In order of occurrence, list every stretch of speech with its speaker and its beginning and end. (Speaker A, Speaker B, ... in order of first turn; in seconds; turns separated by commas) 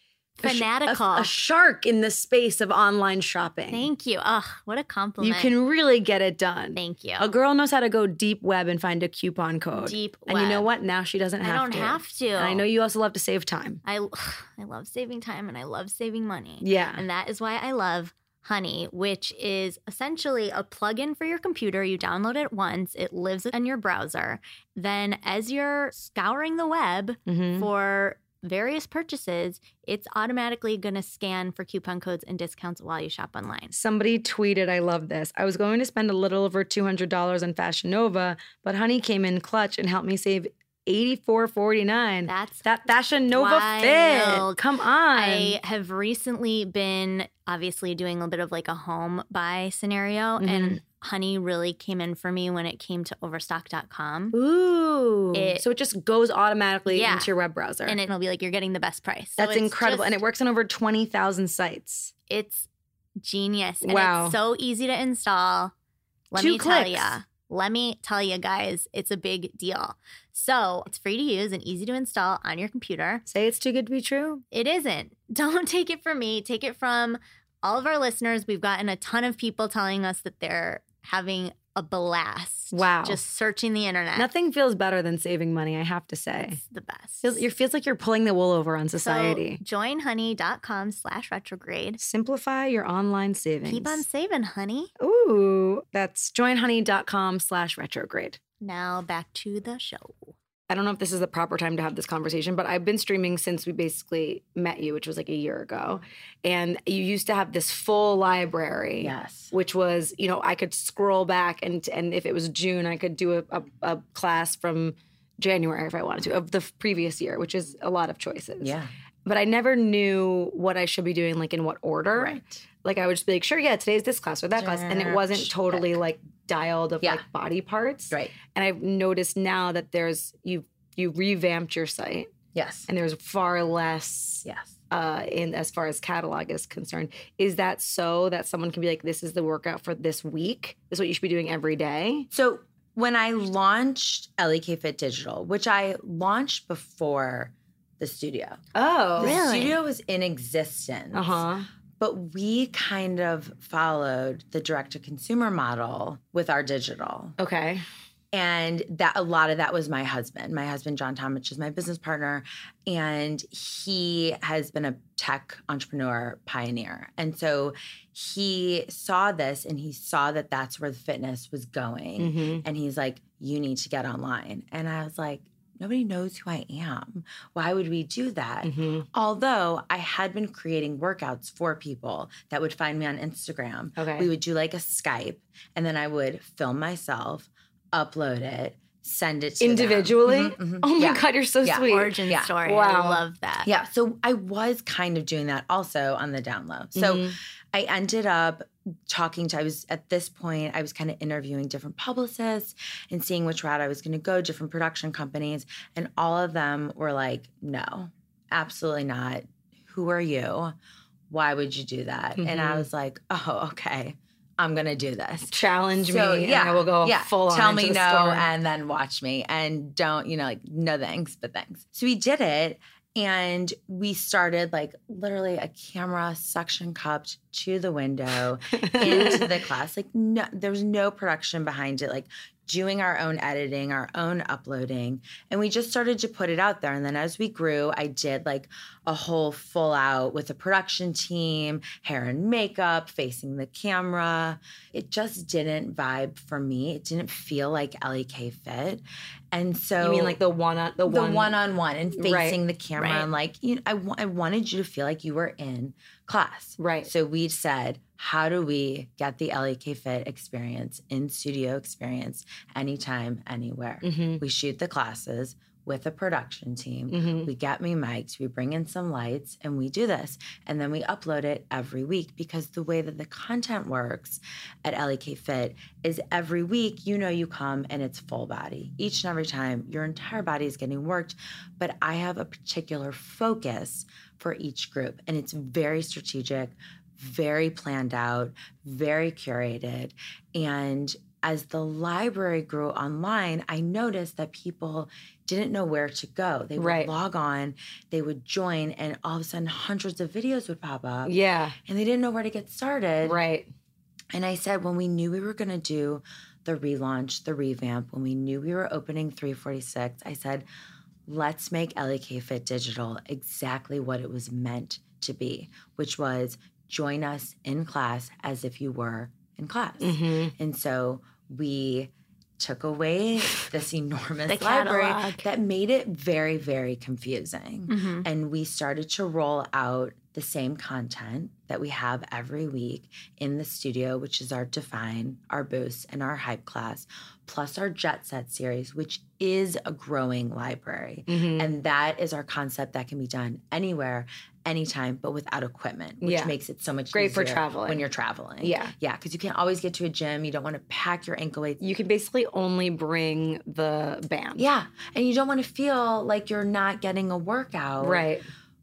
Speaker A: 0.4-1.3, Speaker B: 0.4-3.9, Speaker A: 3.7-5.5, Speaker B: 5.2-13.8, Speaker A: 6.7-7.3, Speaker A: 9.8-10.7, Speaker A: 11.4-12.6, Speaker A: 13.8-33.7, Speaker B: 16.6-17.1, Speaker B: 27.3-27.7, Speaker B: 33.7-45.6, Speaker A: 42.3-42.7, Speaker A: 43.3-44.6, Speaker A: 45.1-54.4, Speaker B: 50.4-50.8, Speaker B: 54.3-58.0, Speaker A: 55.3-55.6, Speaker A: 56.9-57.3, Speaker A: 57.9-60.2, Speaker B: 59.4-62.1, Speaker A: 62.3-62.7, Speaker A: 63.2-65.7, Speaker B: 63.8-64.4, Speaker A: 66.3-73.2, Speaker B: 66.3-67.2, Speaker B: 73.3-74.4, Speaker A: 74.5-84.3, Speaker B: 82.7-83.2, Speaker B: 84.2-86.6, Speaker A: 86.5-87.4, Speaker B: 87.2-89.6, Speaker A: 89.0-92.0, Speaker B: 92.0-94.0, Speaker A: 93.7-94.9, Speaker B: 95.0-98.4, Speaker A: 98.6-100.3, Speaker B: 100.7-132.3, Speaker C: 109.0-109.5, Speaker C: 118.6-118.9, Speaker C: 122.2-122.6, Speaker C: 124.6-126.0, Speaker C: 128.1-128.4, Speaker C: 132.5-132.9, Speaker B: 132.9-142.3, Speaker C: 134.4-134.8, Speaker C: 142.3-148.6, Speaker B: 148.8-149.4, Speaker C: 149.2-151.4, Speaker A: 149.2-149.8, Speaker B: 151.1-151.7, Speaker C: 152.0-157.4, Speaker B: 157.4-157.8, Speaker C: 158.3-192.5, Speaker B: 172.2-172.6, Speaker B: 178.6-179.1, Speaker B: 184.0-184.3, Speaker B: 189.6-193.2, Speaker A: 191.8-193.7, Speaker C: 193.7-210.8, Speaker B: 196.9-197.3, Speaker C: 211.3-250.4, Speaker B: 212.4-212.9, Speaker B: 215.5-218.5, Speaker B: 228.8-229.5, Speaker B: 250.0-251.6, Speaker C: 251.1-301.3, Speaker B: 252.2-252.6, Speaker A: 253.0-253.3, Speaker B: 256.8-257.1, Speaker B: 264.0-264.4, Speaker B: 267.1-267.5, Speaker B: 296.8-297.1, Speaker B: 301.2-301.8, Speaker C: 301.9-303.4, Speaker B: 303.2-303.7, Speaker C: 304.3-310.6, Speaker C: 311.3-351.8, Speaker B: 320.0-320.5, Speaker A: 324.5-325.5, Speaker A: 327.9-328.3, Speaker B: 341.3-341.7, Speaker B: 346.2-346.5, Speaker B: 347.1-348.0, Speaker B: 348.6-348.9, Speaker B: 351.8-354.7, Speaker C: 354.6-358.3, Speaker B: 358.0-358.4